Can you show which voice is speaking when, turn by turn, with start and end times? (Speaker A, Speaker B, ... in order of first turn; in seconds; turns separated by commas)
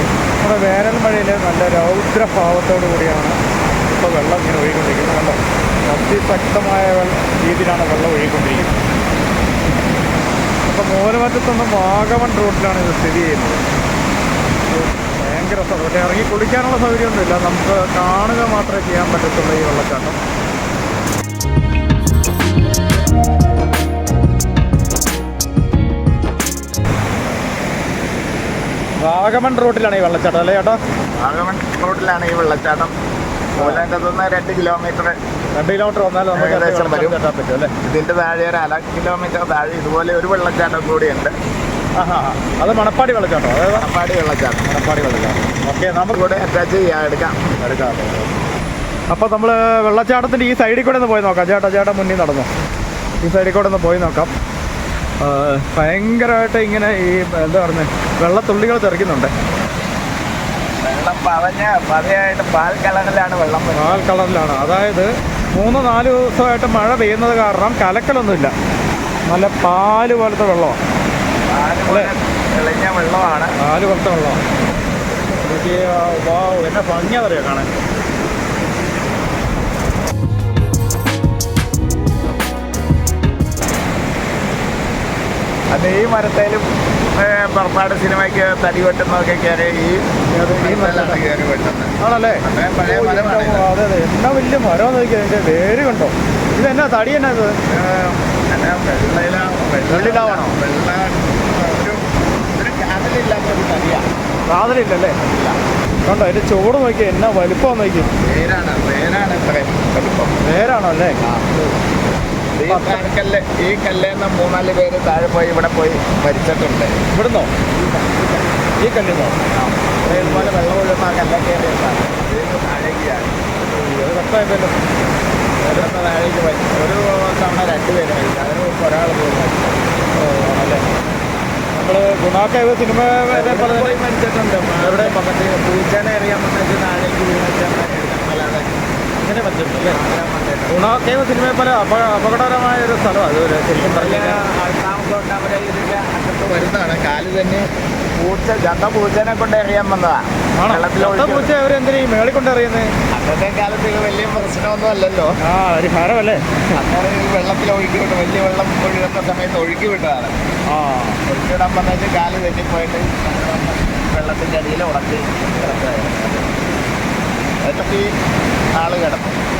Speaker A: 0.4-8.8, Speaker A: 10.7-13.6, Speaker A: 14.8-20.2, Speaker A: 29.0-30.8, Speaker B: 31.2-32.9, Speaker B: 33.5-35.2, Speaker A: 33.6-33.9, Speaker A: 35.5-37.7, Speaker B: 36.3-37.2, Speaker B: 37.8-41.4, Speaker A: 42.0-43.9, Speaker B: 43.7-44.6, Speaker A: 44.6-46.2, Speaker B: 46.1-47.4, Speaker A: 47.6-48.3, Speaker A: 49.1-52.5, Speaker A: 53.2-54.3, Speaker A: 55.2-59.3, Speaker B: 60.8-64.1, Speaker A: 63.8-68.5, Speaker A: 69.3-70.8, Speaker B: 71.5-73.6, Speaker A: 73.6-74.4, Speaker A: 75.4-77.7, Speaker B: 85.7-93.7, Speaker A: 90.3-91.2, Speaker A: 92.0-97.6, Speaker B: 97.7-102.0, Speaker A: 99.9-100.6, Speaker B: 102.5-104.1, Speaker A: 104.5-105.2, Speaker B: 105.3-105.6, Speaker A: 106.1-108.1, Speaker B: 108.0-110.4, Speaker A: 110.4-111.2, Speaker B: 111.2-111.7, Speaker B: 112.5-117.0, Speaker A: 112.7-113.1, Speaker A: 117.1-117.5, Speaker B: 117.7-118.5, Speaker A: 118.8-119.4, Speaker B: 119.5-123.4, Speaker A: 120.1-120.5, Speaker A: 123.7-124.8, Speaker B: 125.6-129.8, Speaker A: 130.2-130.9, Speaker A: 131.7-134.0, Speaker B: 133.3-138.7, Speaker A: 134.8-135.2, Speaker A: 139.2-140.0, Speaker B: 139.8-140.9, Speaker A: 140.7-144.4, Speaker B: 143.8-151.5, Speaker A: 150.6-152.9, Speaker B: 153.1-155.3, Speaker A: 155.4-156.6, Speaker B: 156.8-160.4, Speaker A: 160.7-161.2, Speaker B: 161.2-166.5, Speaker B: 167.6-168.1, Speaker B: 168.8-169.4